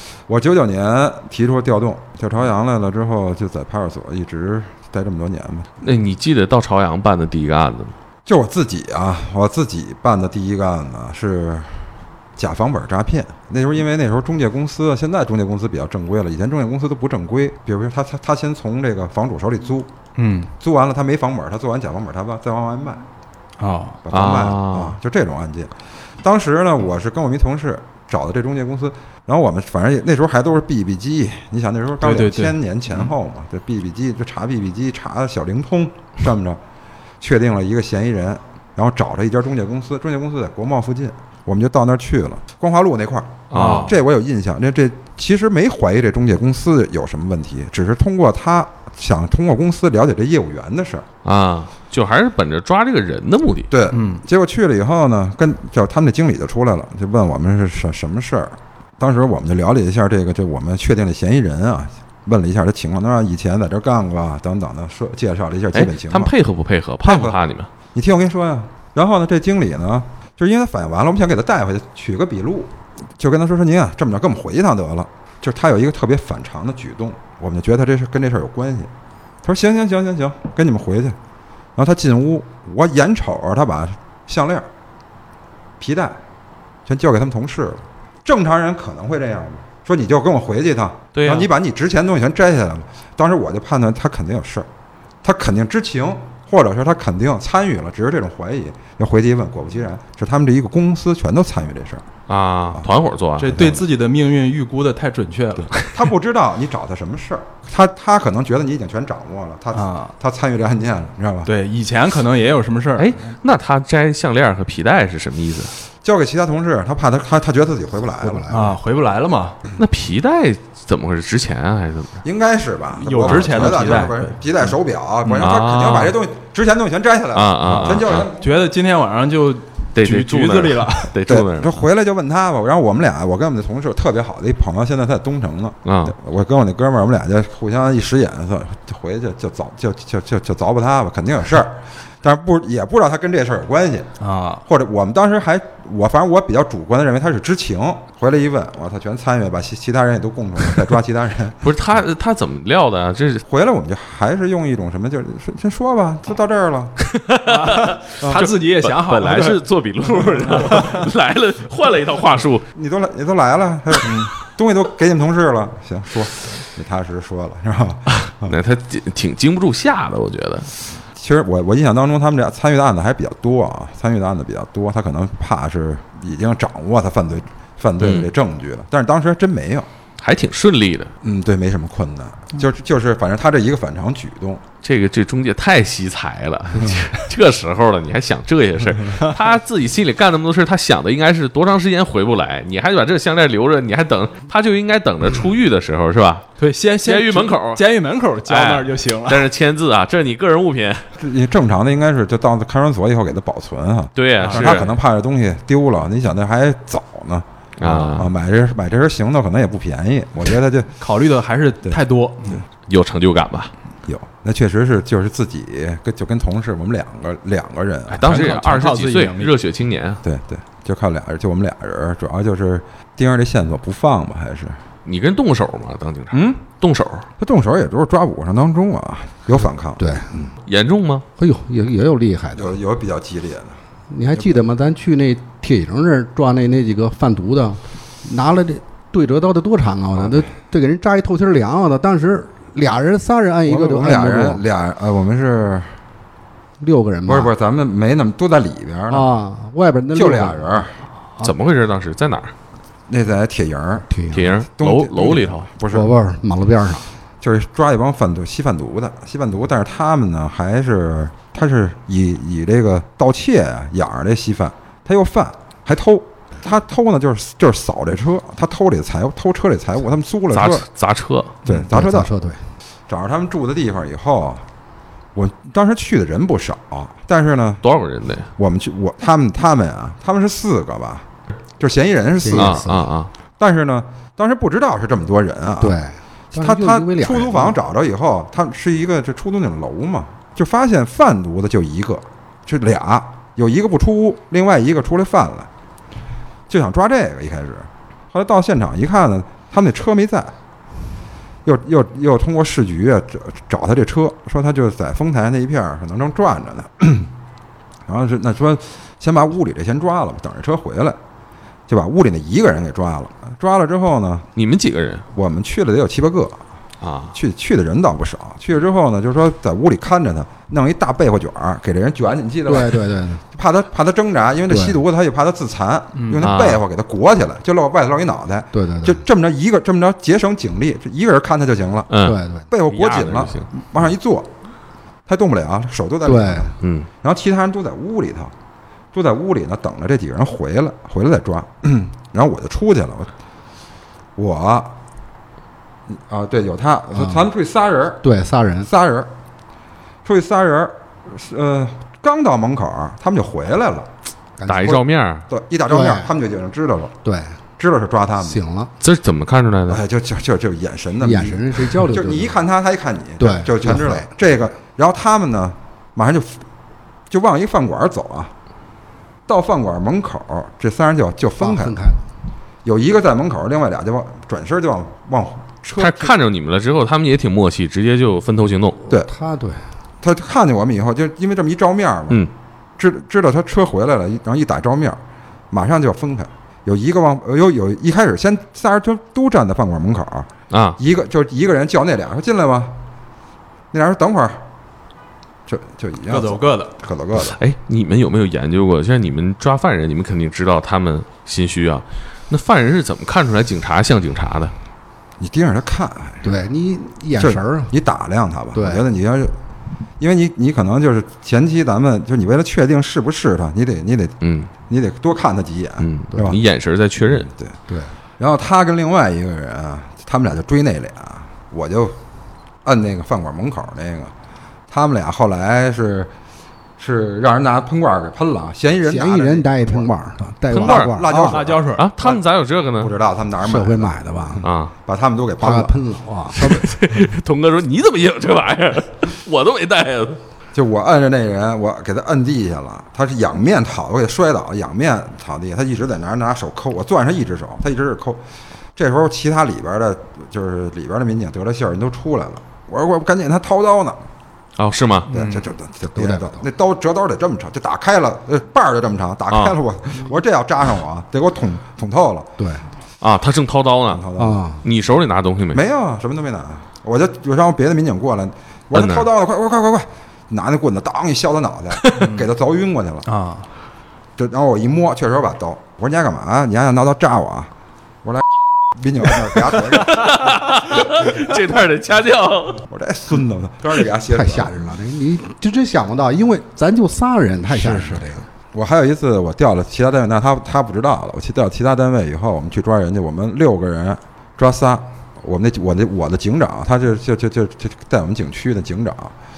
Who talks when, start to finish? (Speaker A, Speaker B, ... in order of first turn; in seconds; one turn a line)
Speaker A: 0.3-5.7
Speaker B: 5.8-7.9
Speaker A: 8.2-19.9
Speaker C: 20.1-20.5
Speaker A: 20.6-23.0
Speaker C: 23.6-24.0
Speaker A: 24.0-36.6
Speaker B: 24.1-25.0
Speaker C: 32.0-33.0
Speaker A: 37.2-51.1
Speaker B: 43.5-44.0
Speaker C: 43.5-44.0
Speaker B: 51.2-53.7
Speaker A: 53.7-66.3
Speaker C: 53.9-54.2
Speaker B: 65.7-67.7
Speaker A: 67.0-67.4
Speaker A: 67.9-78.9
Speaker A: 79.4-81.2
Speaker A: 81.8-84.7
Speaker A: 85.8-86.2
Speaker A: 86.8-94.7
Speaker B: 91.1-91.5
Speaker A: 95.2-102.0
Speaker B: 102.3-103.6
Speaker C: 103.4-105.8
Speaker A: 103.5-103.8
Speaker A: 105.6-111.5
Speaker C: 109.7-110.1
Speaker C: 111.5-113.1
Speaker B: 113.0-115.7
Speaker A: 116.0-118.5
Speaker D: 118.2-118.8
Speaker C: 118.5-119.6
Speaker B: 119.8-122.2
Speaker A: 122.2-128.5
Speaker C: 123.0-124.4
Speaker B: 123.2-124.0
Speaker C: 125.2-125.5
Speaker B: 125.4-126.2
Speaker B: 127.3-128.3
Speaker C: 127.6-131.1
Speaker B: 129.9-131.8
Speaker A: 131.2-144.1
Speaker B: 135.8-136.1
Speaker C: 144.2-144.6
Speaker A: 144.7-151.7
Speaker B: 151.6-153.4
Speaker A: 153.4-156.9
Speaker B: 157.0-162.6
Speaker C: 157.4-159.6
Speaker C: 160.1-161.1
Speaker A: 162.7-168.6
Speaker C: 164.0-164.3
Speaker B: 168.2-170.7
Speaker A: 171.1-179.9
Speaker B: 178.0-178.3
Speaker B: 180.2-181.1
Speaker A: 181.2-184.6
Speaker B: 184.8-196.5
Speaker C: 196.6-199.4
Speaker B: 197.0-197.8
Speaker B: 198.4-201.1
Speaker A: 201.2-210.9
Speaker B: 204.2-204.9
Speaker C: 204.4-204.9
Speaker B: 207.8-208.3
Speaker C: 211.0-212.6
Speaker B: 212.9-213.7
Speaker A: 214.1-218.4
Speaker C: 218.1-219.5
Speaker B: 218.2-220.2
Speaker A: 220.2-224.8
Speaker B: 225.0-227.3
Speaker A: 226.3-226.6
Speaker A: 227.4-230.5
Speaker D: 230.0-230.3
Speaker B: 230.7-231.2
Speaker D: 231.4-232.8
Speaker A: 232.5-233.8
Speaker D: 234.1-244.6
Speaker A: 234.3-234.6
Speaker A: 240.2-240.4
Speaker A: 243.6-245.9
Speaker D: 246.8-247.5
Speaker A: 247.2-249.3
Speaker D: 249.1-250.7
Speaker A: 250.1-251.0
Speaker B: 251.4-252.5
Speaker A: 253.1-254.1
Speaker D: 254.1-254.5
Speaker B: 254.3-255.7
Speaker A: 254.8-256.1
Speaker D: 255.9-257.0
Speaker A: 257.4-270.9
Speaker B: 270.5-271.5
Speaker A: 271.6-272.3
Speaker D: 271.7-272.6
Speaker A: 273.1-274.6
Speaker A: 275.3-277.8
Speaker B: 277.8-278.5
Speaker A: 278.6-281.3
Speaker A: 281.8-282.9
Speaker D: 282.4-283.1
Speaker B: 282.5-283.3
Speaker A: 283.6-286.0
Speaker D: 285.8-287.8
Speaker A: 286.5-295.7
Speaker A: 296.7-300.5
Speaker A: 301.6-307.3
Speaker A: 308.1-311.2
Speaker A: 311.9-314.5
Speaker B: 314.6-315.2
Speaker A: 315.3-316.6
Speaker B: 317.0-317.3
Speaker A: 317.3-332.1
Speaker D: 322.7-323.4
Speaker D: 324.7-325.0
Speaker C: 326.1-326.5
Speaker B: 326.4-326.8
Speaker D: 328.7-329.2
Speaker B: 332.1-333.7
Speaker D: 332.2-332.6
Speaker A: 332.7-334.5
Speaker A: 335.2-338.5
Speaker D: 336.2-336.7
Speaker B: 336.8-337.1
Speaker A: 339.1-343.3
Speaker A: 344.4-344.9
Speaker A: 346.1-348.2
Speaker D: 347.1-347.4
Speaker D: 348.2-348.9
Speaker A: 348.8-349.3
Speaker A: 350.2-354.1
Speaker D: 354.6-355.0
Speaker B: 354.6-355.4
Speaker A: 354.8-357.1
Speaker D: 355.9-356.3
Speaker D: 357.2-357.6
Speaker A: 357.8-358.6
Speaker D: 358.4-358.9
Speaker B: 359.0-360.0
Speaker A: 359.9-366.6
Speaker D: 361.2-362.6
Speaker D: 363.4-364.3
Speaker A: 367.3-368.5
Speaker A: 369.5-371.9
Speaker D: 371.6-372.2
Speaker A: 372.8-376.3
Speaker B: 376.0-379.0
Speaker D: 379.1-379.9
Speaker A: 380.2-382.4
Speaker A: 383.0-392.9
Speaker B: 390.7-391.0
Speaker A: 393.9-394.6
Speaker A: 395.6-397.6
Speaker C: 396.3-396.9
Speaker B: 397.3-404.7
Speaker A: 405.4-406.5
Speaker D: 406.4-407.9
Speaker A: 407.3-409.5
Speaker D: 408.7-409.0
Speaker A: 410.2-414.4
Speaker B: 414.4-414.7
Speaker A: 414.9-416.6
Speaker B: 416.0-417.5
Speaker A: 417.3-417.7
Speaker A: 418.4-422.2
Speaker A: 422.8-424.3
Speaker A: 424.9-426.3
Speaker A: 427.0-430.1
Speaker D: 429.0-431.6
Speaker B: 430.7-431.3
Speaker A: 430.7-432.4
Speaker C: 431.3-432.2
Speaker B: 431.9-433.1
Speaker A: 433.0-436.0
Speaker D: 433.6-434.6
Speaker B: 434.6-434.9
Speaker D: 435.6-436.9
Speaker A: 436.6-436.8
Speaker B: 436.6-440.4
Speaker A: 440.7-448.4
Speaker A: 448.9-454.2
Speaker B: 454.8-455.3
Speaker C: 455.3-455.7
Speaker A: 455.3-462.6
Speaker D: 456.1-456.6
Speaker B: 459.5-459.8
Speaker D: 462.6-462.9
Speaker B: 463.2-464.3
Speaker A: 464.1-464.6
Speaker D: 464.4-464.8
Speaker B: 464.8-465.8
Speaker A: 465.7-473.3
Speaker B: 468.9-469.3
Speaker C: 472.1-472.5
Speaker C: 473.2-473.7
Speaker A: 474.4-477.7
Speaker A: 478.2-481.3
Speaker B: 479.6-482.8
Speaker A: 482.9-484.8
Speaker D: 484.3-488.4
Speaker C: 487.7-488.3
Speaker A: 488.7-499.3